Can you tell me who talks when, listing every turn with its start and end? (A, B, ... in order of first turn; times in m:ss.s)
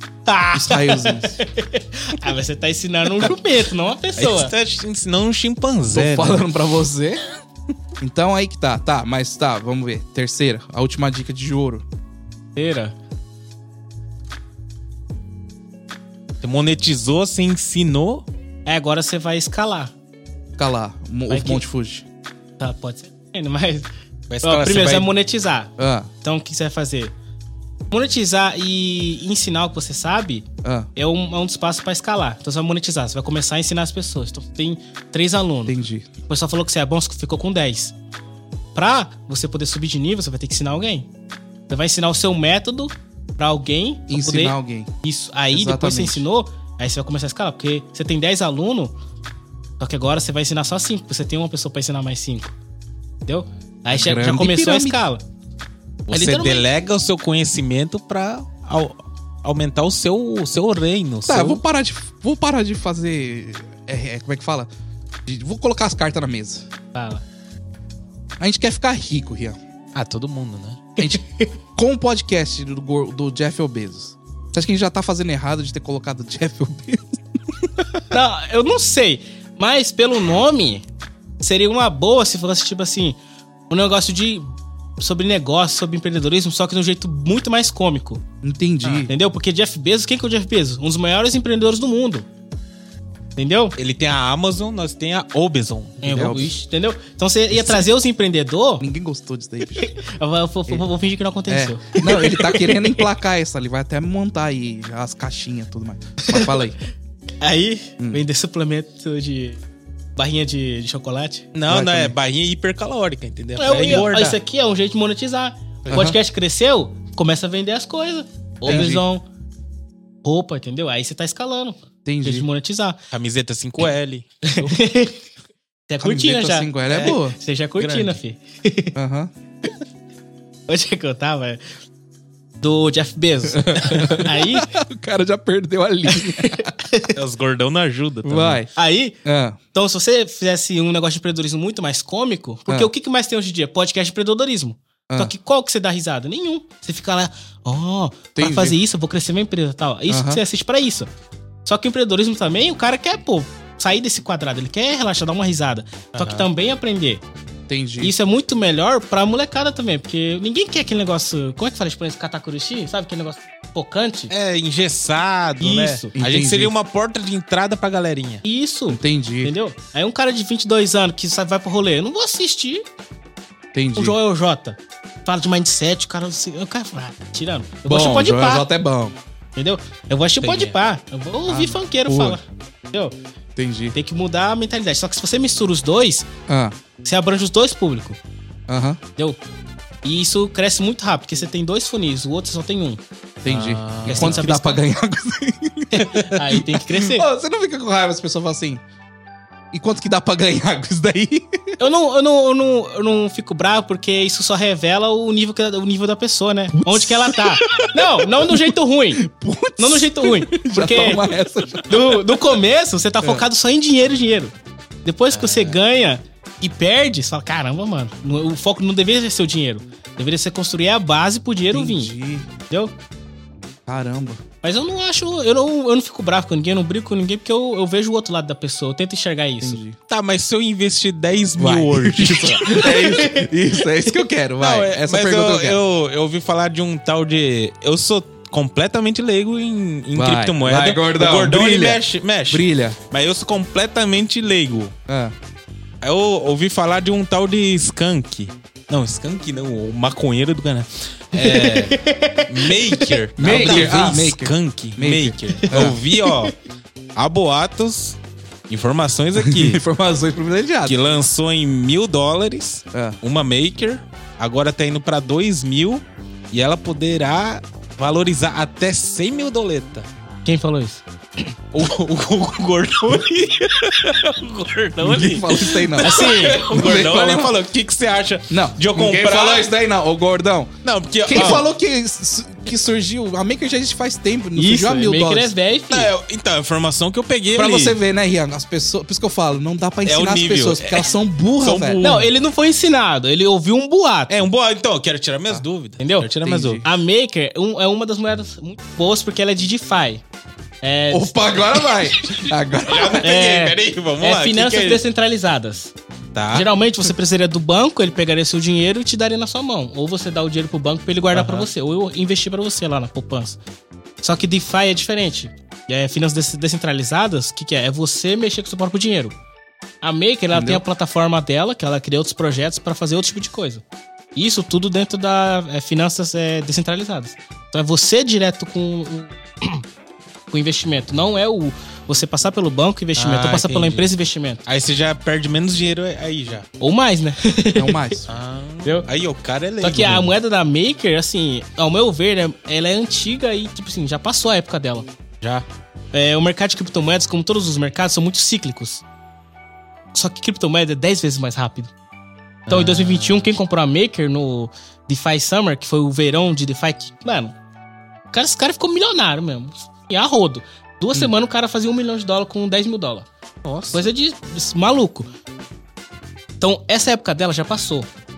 0:00.2-0:04.5 A
0:00.5-0:01.4 B
0:04.2-0:06.4 C
0:05.9-0:07.2 B
0:08.0-0:11.8 B
0:12.6-0:12.9 A
0:16.4-0:18.2 C
0:18.6-0:19.9 A
0:20.6-0:22.0 B
0:21.3-0:21.6 A
0:22.6-0:23.9 A
0:24.3-0:25.1 C
0:24.4-0:27.1 A
0:25.8-0:26.1 B
0:27.9-0:35.8 A
0:30.6-0:30.9 B
0:35.7-0:36.1 B
0:36.3-0:37.9 A
0:38.7-0:41.1 A
0:41.7-0:48.9 A
0:44.1-0:44.9 B
0:45.5-0:46.2 B
0:49.8-0:52.5 A
0:53.2-0:55.2 A
0:53.9-0:55.0 B
0:56.1-1:01.6 C
0:56.1-0:56.6 A
1:01.3-1:04.7 B
1:05.2-1:06.7 B
1:06.9-1:07.2 A
1:08.4-1:09.6 B
1:09.9-1:10.8 C
1:11.0-1:11.5 A
1:11.8-1:17.8 B
1:18.1-1:20.8 A
1:21.4-1:23.2 A
1:23.7-1:24.5 A
1:25.0-1:28.2 A
1:28.4-1:29.1 B
1:29.0-1:32.3 A
1:33.4-1:33.7 A
1:33.8-1:36.4 C
1:36.0-1:38.8 A
1:36.1-1:36.5 B
1:38.8-1:39.9 B
1:39.8-1:43.1 A
1:41.5-1:46.8 B
1:46.2-1:46.6 A
1:47.4-1:49.6 A
1:50.2-1:51.5 A
1:51.5-1:54.4 C
1:51.7-1:52.1 B
1:53.6-1:59.2 A
1:55.9-1:56.2 B
1:58.6-1:59.0 B
2:00.2-2:03.0 A
2:02.0-2:02.5 B
2:03.1-2:04.8 C
2:04.5-2:05.2 A
2:05.9-2:09.0 A
2:06.0-2:07.4 B
2:06.9-2:07.2 C
2:07.8-2:08.2 C
2:09.0-2:09.3 B
2:10.7-2:11.6 A
2:12.6-2:14.7 A
2:13.5-2:16.7 B
2:16.1-2:17.2 A
2:17.1-2:18.6 C
2:18.2-2:18.7 B
2:18.8-2:19.2 A
2:19.2-2:19.6 B
2:19.7-2:31.1 A
2:28.4-2:28.8 B
2:30.1-2:30.4 B
2:31.6-2:37.2 A
2:36.1-2:36.4 C
2:37.7-2:38.1 B
2:38.0-2:44.3 A
2:44.3-2:48.4 C
2:45.6-2:46.1 A
2:46.1-2:46.7 B
2:48.4-2:52.8 A
2:48.9-2:49.5 B
2:53.7-2:54.2 B
2:53.9-2:58.7 A
2:57.9-2:59.2 B
2:59.6-3:03.1 A
3:00.4-3:00.8 C
3:01.5-3:02.4 B
3:03.6-3:03.9 B
3:03.9-3:06.3 A
3:06.5-3:06.8 B
3:07.0-3:08.2 A
3:08.7-3:09.0 B
3:10.0-3:13.0 A
3:13.4-3:18.8 B
3:13.4-3:14.5 C
3:14.0-3:14.8 A
3:15.9-3:17.3 A
3:19.7-3:21.8 B
3:21.8-3:29.2 A
3:26.8-3:27.8 B
3:28.4-3:32.2 B
3:29.8-3:31.2 A
3:31.9-3:34.5 A
3:33.2-3:33.5 B
3:35.0-3:42.1 A
3:35.3-3:35.8 C
3:41.7-3:42.5 B
3:43.9-3:44.4 B
3:44.6-3:49.8 A
3:49.6-3:50.0 B
3:50.1-3:52.8 C
3:51.6-3:55.8 B
3:52.6-3:53.5 A
3:54.6-4:04.9 C
4:00.1-4:03.0 B
4:05.1-4:05.3 B
4:06.0-4:16.5 C
4:11.4-4:14.0 A
4:13.4-4:16.0 B
4:15.6-4:16.5 A
4:17.2-4:18.2 C
4:18.7-4:19.8 C
4:19.3-4:21.1 B
4:20.8-4:30.1 C
4:30.4-4:31.0 A
4:31.7-4:39.7 C
4:35.0-4:37.5 B
4:36.0-4:36.7 A
4:38.5-4:40.7 B
4:40.8-4:41.6 C
4:41.2-4:45.5 B
4:44.6-4:46.1 A
4:45.9-4:48.0 C
4:47.5-4:52.0 B
4:50.0-4:52.3 C
4:52.0-4:54.3 A
4:54.3-4:56.8 C
4:56.0-4:56.3 A
4:56.4-4:56.8 B
4:56.8-5:00.2 A
5:00.8-5:02.1 A
5:01.1-5:03.3 B
5:02.8-5:05.0 C
5:03.2-5:05.9 A
5:06.3-5:06.7 C
5:06.5-5:13.6 A
5:11.3-5:11.7 C
5:14.2-5:19.3 A
5:20.0-5:23.8 A
5:20.5-5:20.8 B
5:24.3-5:29.8 A
5:30.5-5:34.6 A
5:33.2-5:34.1 C
5:34.6-5:36.6 C
5:36.8-5:38.2 A
5:37.7-5:38.3 B
5:38.3-5:40.3 C
5:39.8-5:45.1 A
5:46.1-5:49.0 A
5:50.1-5:51.9 A
5:52.7-5:53.5 C
5:52.7-5:57.5 A
5:58.3-6:03.3 A
6:03.6-6:04.0 C
6:03.9-6:05.3 A
6:06.6-6:08.1 A